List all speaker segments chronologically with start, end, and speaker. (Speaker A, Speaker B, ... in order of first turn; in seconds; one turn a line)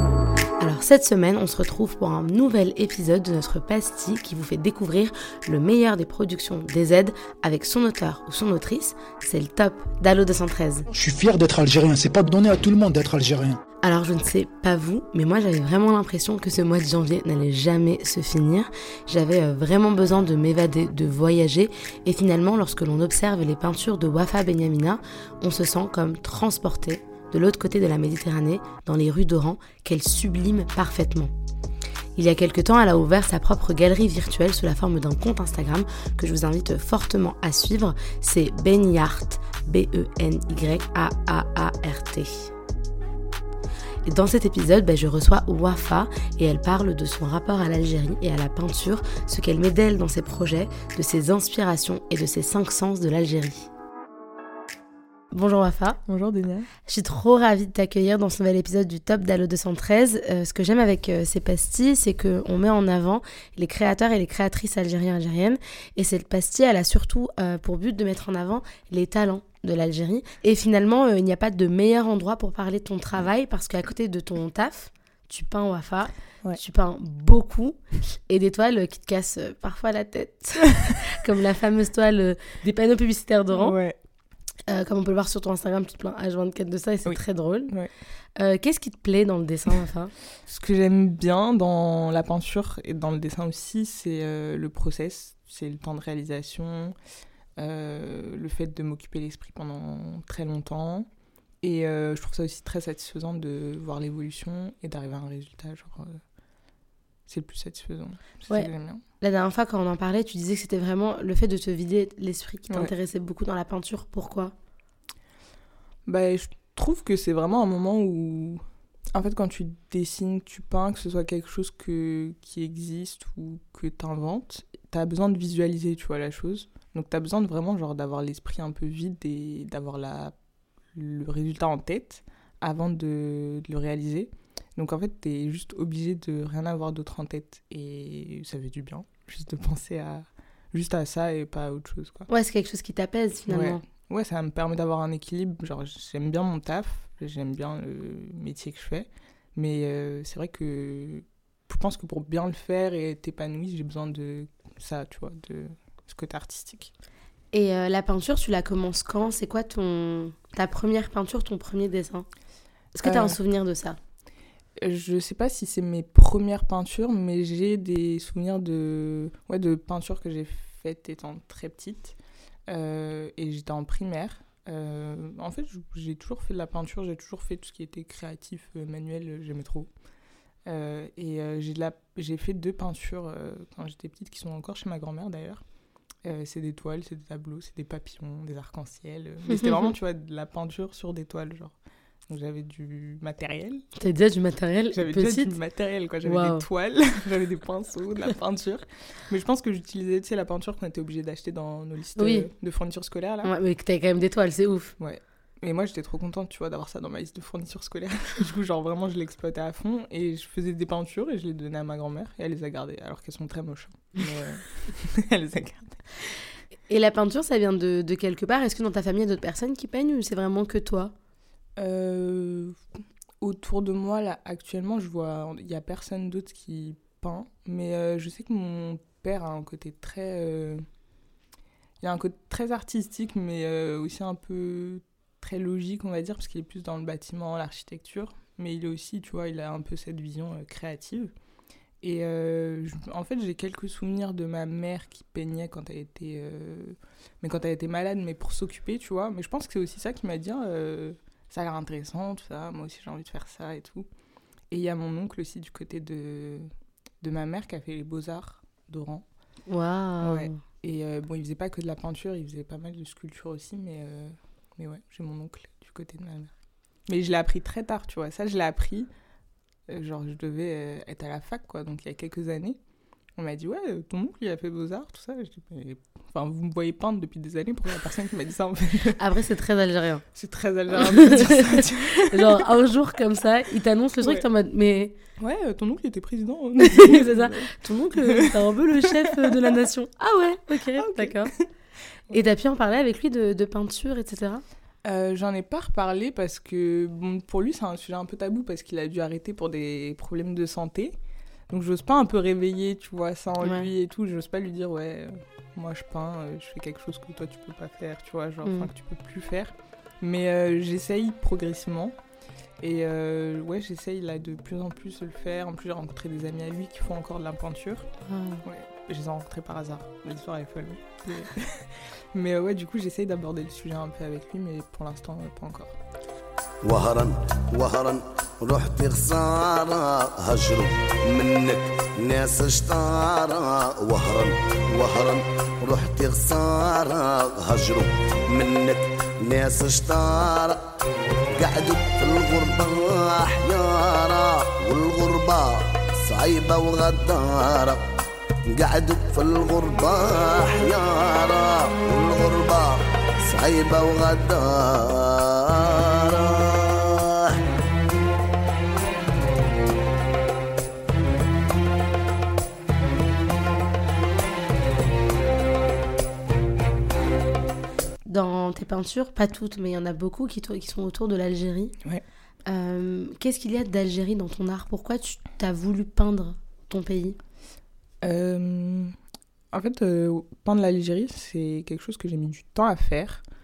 Speaker A: 0.6-10.9
Speaker B: 10.9-13.6
Speaker A: 13.8-31.3
Speaker A: 32.2-42.5
Speaker A: 44.0-53.7
Speaker A: 55.3-56.0
Speaker C: 56.1-56.7
Speaker A: 56.9-83.8
Speaker C: 83.5-84.0
Speaker A: 84.7-87.7
Speaker C: 87.1-87.9
Speaker A: 88.4-90.1
Speaker C: 90.5-97.0
Speaker C: 97.6-101.1
Speaker C: 101.6-106.2
Speaker C: 107.3-109.0
Speaker A: 108.5-114.5
Speaker C: 116.1-118.6
Speaker C: 119.1-130.3
Speaker C: 130.9-142.3
Speaker A: 142.3-143.8
Speaker C: 143.5-156.9
Speaker A: 157.5-162.3
Speaker A: 162.9-164.0
Speaker C: 163.0-163.4
Speaker C: 164.8-172.2
Speaker C: 172.7-179.9
Speaker C: 180.7-185.6
Speaker C: 186.2-191.8
Speaker A: 189.5-189.9
Speaker C: 192.3-193.9
Speaker A: 194.0-195.6
Speaker C: 194.9-203.5
Speaker A: 196.2-196.7
Speaker A: 202.2-202.5
Speaker A: 203.4-205.0
Speaker C: 205.0-216.0
Speaker A: 216.9-221.1
Speaker C: 221.8-222.8
Speaker C: 223.4-230.8
Speaker C: 232.0-241.3
Speaker C: 242.0-254.1
Speaker C: 254.7-256.7
Speaker C: 257.2-259.2
Speaker A: 259.7-260.6
Speaker C: 260.2-266.5
Speaker C: 267.1-269.1
Speaker C: 269.9-272.8
Speaker C: 273.4-279.2
Speaker A: 279.2-280.2
Speaker C: 280.4-282.6
Speaker A: 281.0-285.2
Speaker C: 285.4-289.7
Speaker A: 286.8-291.5
Speaker C: 291.0-291.5
Speaker A: 292.3-294.6
Speaker C: 295.0-301.2
Speaker C: 301.7-312.2
Speaker A: 303.6-303.9
Speaker A: 308.6-308.9
Speaker C: 312.8-318.1
Speaker A: 318.3-318.6
Speaker C: 318.6-326.0
Speaker D: 326.8-340.8
Speaker D: 341.5-348.0
Speaker D: 348.7-357.6
Speaker A: 368.3-371.9
Speaker A: 372.7-377.4
Speaker C: 378.2-379.1
Speaker C: 379.7-383.4